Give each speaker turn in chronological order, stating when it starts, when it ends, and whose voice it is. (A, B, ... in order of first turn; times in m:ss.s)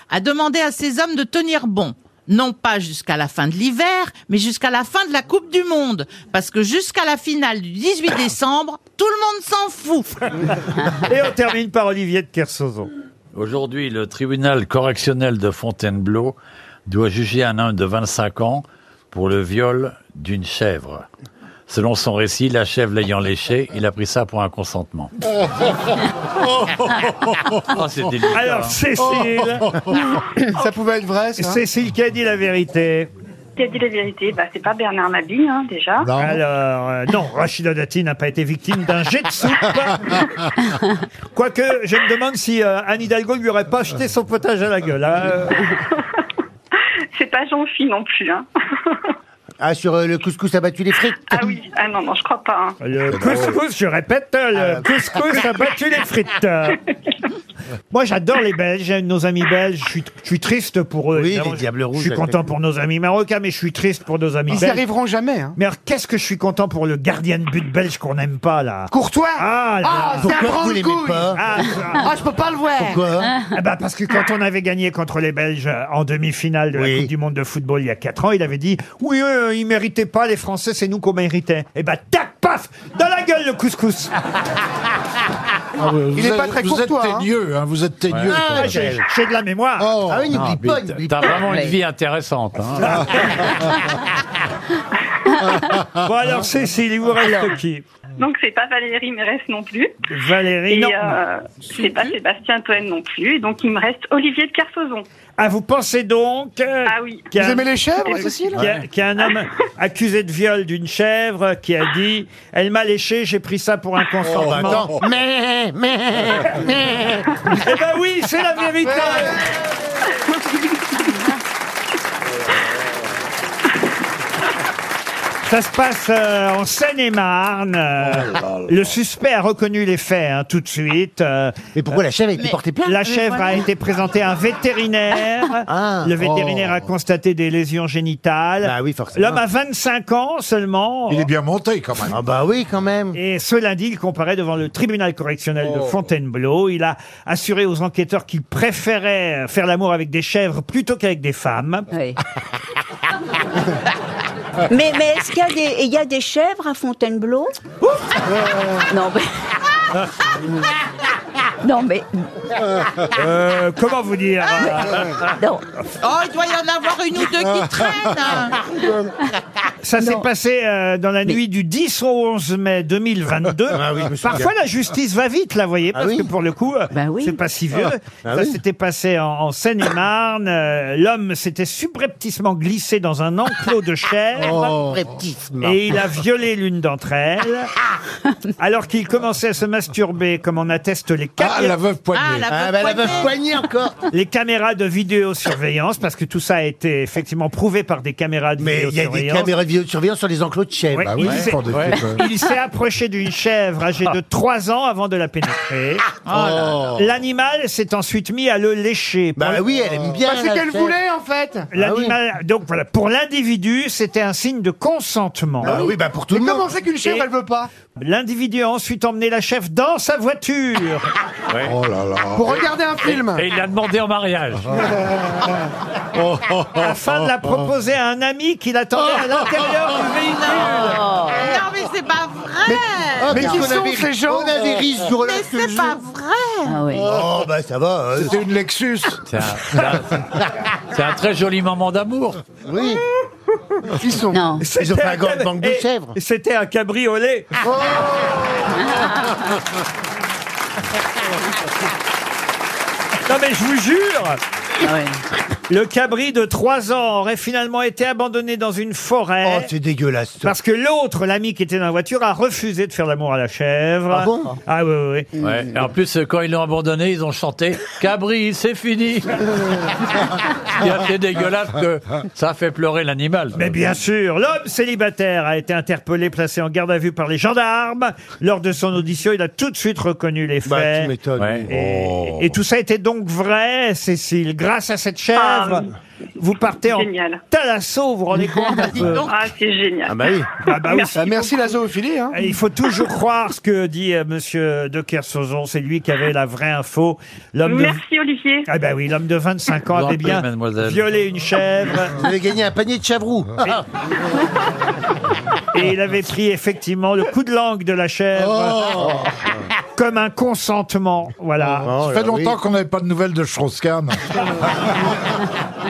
0:01.3-0:02.6 A
0:06.0-0:07.5 A
0:08.1-0:09.3 A
0:10.8-0:12.9 B
0:13.3-0:16.4 C
0:16.9-0:21.0 C
0:21.7-0:25.1 C
0:26.7-0:27.5 D
0:27.7-0:28.8 C
0:28.3-0:29.7 B
0:30.4-0:31.6 E
0:31.4-0:33.1 B
0:33.6-0:36.1 F
0:36.0-0:36.4 D
0:36.2-0:40.3 B
0:41.3-0:45.7 B
0:45.9-0:46.2 F
0:47.1-0:49.1 F
0:49.6-0:51.4 G
0:51.3-0:52.8 F
0:52.8-0:56.9 B
0:53.1-0:53.5 D
0:54.5-0:54.8 G
0:57.9-1:04.8 B
1:01.1-1:02.4 G
1:04.5-1:05.6 E
1:05.6-1:10.3 B
1:08.9-1:11.3 E
1:10.2-1:11.4 G
1:11.3-1:12.1 B
1:11.9-1:13.1 E
1:12.8-1:13.3 G
1:13.5-1:24.2 B
1:16.7-1:17.1 G
1:25.8-1:28.8 D
1:26.1-1:27.3 E
1:28.3-1:29.0 G
1:28.3-1:29.9 B
1:29.8-1:30.3 D
1:30.0-1:31.4 G
1:30.3-1:33.1 C
1:31.4-1:31.8 H
1:32.8-1:33.5 B
1:35.9-1:37.8 B
1:37.2-1:37.5 H
1:38.2-1:40.0 F
1:40.1-1:41.2 B
1:40.7-1:45.1 F
1:45.4-1:55.0 B
1:46.8-1:47.4 F
1:47.3-1:48.6 E
1:48.0-1:48.4 F
1:48.6-1:48.8 C
1:54.3-1:54.8 D
1:54.4-1:57.4 G
1:57.5-1:59.4 B
1:58.8-1:59.3 E
2:00.1-2:00.4 F
2:05.4-2:11.6 B
2:11.7-2:13.0 G
2:12.8-2:21.3 B
2:15.7-2:16.1 G
2:16.2-2:16.7 D
2:18.6-2:19.4 G
2:21.1-2:22.2 D
2:22.1-2:23.2 G
2:23.1-2:31.9 B
2:31.9-2:32.2 H
2:34.7-2:37.5 H
2:38.9-2:39.6 H
2:41.6-2:42.5 H
2:43.1-2:45.1 B
2:44.6-2:45.7 H
2:46.0-2:48.5 A
2:47.2-2:48.2 F
2:49.8-3:04.8 B
2:50.0-2:50.2 H
2:53.7-2:54.5 G
2:55.9-2:56.3 G
2:56.9-2:57.4 H
2:58.2-2:58.6 G
3:04.4-3:05.8 G
3:05.6-3:07.7 B
3:08.6-3:11.8 B
3:11.4-3:12.5 D
3:12.4-3:13.2 F
3:12.5-3:14.0 G
3:14.1-3:19.5 B
3:18.6-3:21.3 G
3:20.9-3:26.1 B
3:21.0-3:22.3 D
3:21.3-3:22.0 C
3:26.3-3:26.7 D
3:26.4-3:27.0 C
3:26.9-3:29.6 B
3:29.4-3:31.0 G
3:30.0-3:31.7 E
3:31.7-3:35.8 B
3:31.8-3:32.2 G
3:35.6-3:36.7 G
3:35.6-3:37.7 E
3:37.9-3:41.1 B
3:41.5-3:41.8 C
3:41.6-3:42.6 D
3:42.3-3:43.5 E
3:43.0-3:44.8 C
3:46.1-3:47.0 D
3:46.8-3:51.1 B
3:50.9-3:51.4 H
3:51.5-3:52.0 A
3:52.6-3:54.6 E
3:53.2-3:56.0 G
3:53.3-3:53.7 H
3:55.6-3:56.0 F
3:55.8-3:56.2 A
3:56.6-3:57.1 H
3:57.0-3:58.4 G
3:58.2-3:59.2 D
3:59.3-4:02.4 C
3:59.8-4:00.4 D
4:02.6-4:03.0 G
4:04.0-4:04.4 E
4:04.3-4:04.6 H
4:04.6-4:07.5 B
4:04.8-4:06.2 G
4:07.8-4:08.4 E
4:13.2-4:14.4 B
4:14.8-4:15.2 H
4:15.7-4:19.7 B
4:19.4-4:20.5 G
4:20.4-4:25.3 B
4:24.1-4:24.6 G
4:25.4-4:33.8 C
4:33.5-4:41.1 B
4:40.6-4:42.5 G
4:41.4-4:41.6 C
4:41.7-4:49.2 B
4:45.3-4:45.9 F
4:46.9-4:47.4 F
4:48.9-4:51.4 F
4:50.1-4:50.5 G
4:50.6-4:51.7 B
4:51.1-4:52.4 E
4:52.3-4:58.0 B
4:57.6-4:58.7 F
4:58.7-5:02.2 B
4:59.9-5:01.0 C
5:02.1-5:03.8 G
5:05.7-5:09.0 B
5:08.6-5:09.3 D
5:09.9-5:11.9 B
5:11.6-5:12.6 G
5:12.0-5:15.0 D